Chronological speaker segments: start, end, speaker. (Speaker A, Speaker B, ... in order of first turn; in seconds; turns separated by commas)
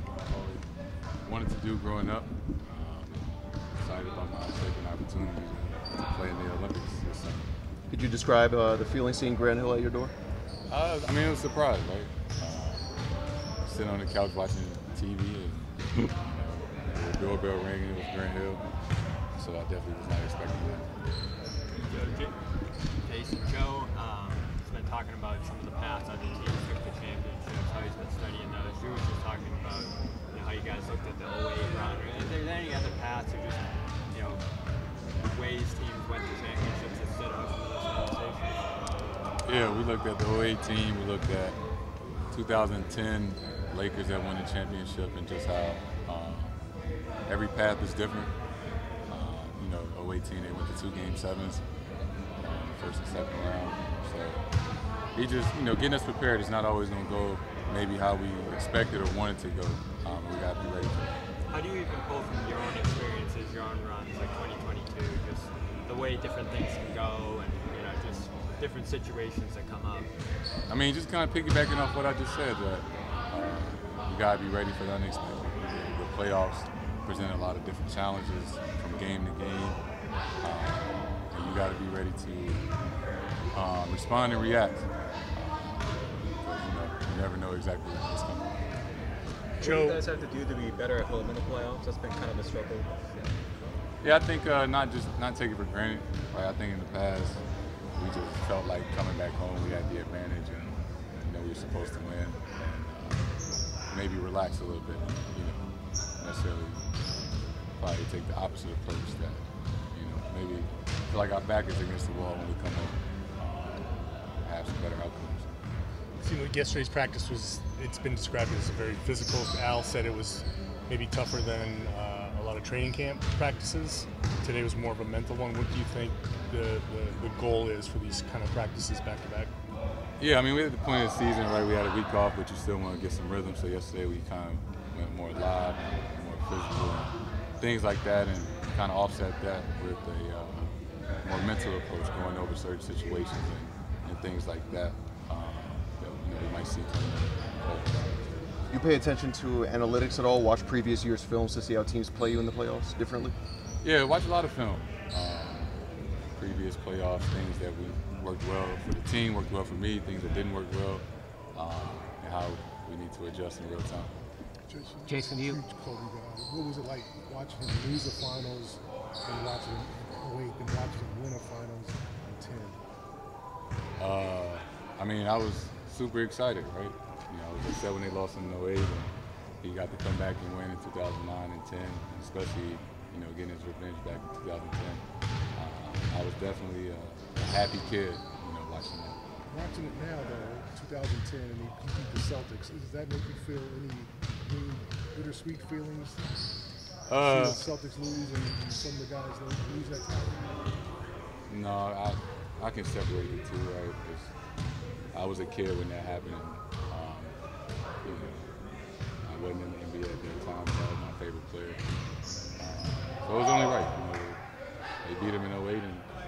Speaker A: 0.2-0.6, Speaker A: 1.2-7.5, Speaker B: 7.9-10.1, Speaker A: 10.7-12.9, Speaker A: 13.6-18.6, Speaker A: 19.4-20.9, Speaker C: 21.8-22.4, Speaker C: 23.0-34.4, Speaker C: 35.2-38.5, Speaker A: 39.4-41.6, Speaker A: 42.3-46.6, Speaker A: 47.2-48.3, Speaker A: 49.1-51.6, Speaker A: 52.4-54.4, Speaker A: 55.1-61.2, Speaker C: 61.5-70.1, Speaker A: 70.7-79.8, Speaker A: 80.4-82.7, Speaker A: 83.5-88.6, Speaker D: 89.6-93.3, Speaker E: 89.6-90.0, Speaker A: 94.0-97.4, Speaker A: 97.9-103.3, Speaker A: 103.9-105.6, Speaker A: 106.2-115.5, Speaker E: 116.2-129.5, Speaker A: 130.2-148.2, Speaker B: 148.7-153.3, Speaker A: 153.8-155.8, Speaker A: 156.3-164.1, Speaker F: 164.7-172.8, Speaker A: 174.0-185.0, Speaker A: 185.6-189.2, Speaker F: 189.4-196.2, Speaker A: 197.1-197.6, Speaker F: 197.2-200.5, Speaker A: 201.5-204.3, Speaker A: 205.1-207.3, Speaker A: 208.0-208.5, Speaker A: 209.2-211.8, Speaker A: 212.6-214.4, Speaker A: 215.0-216.1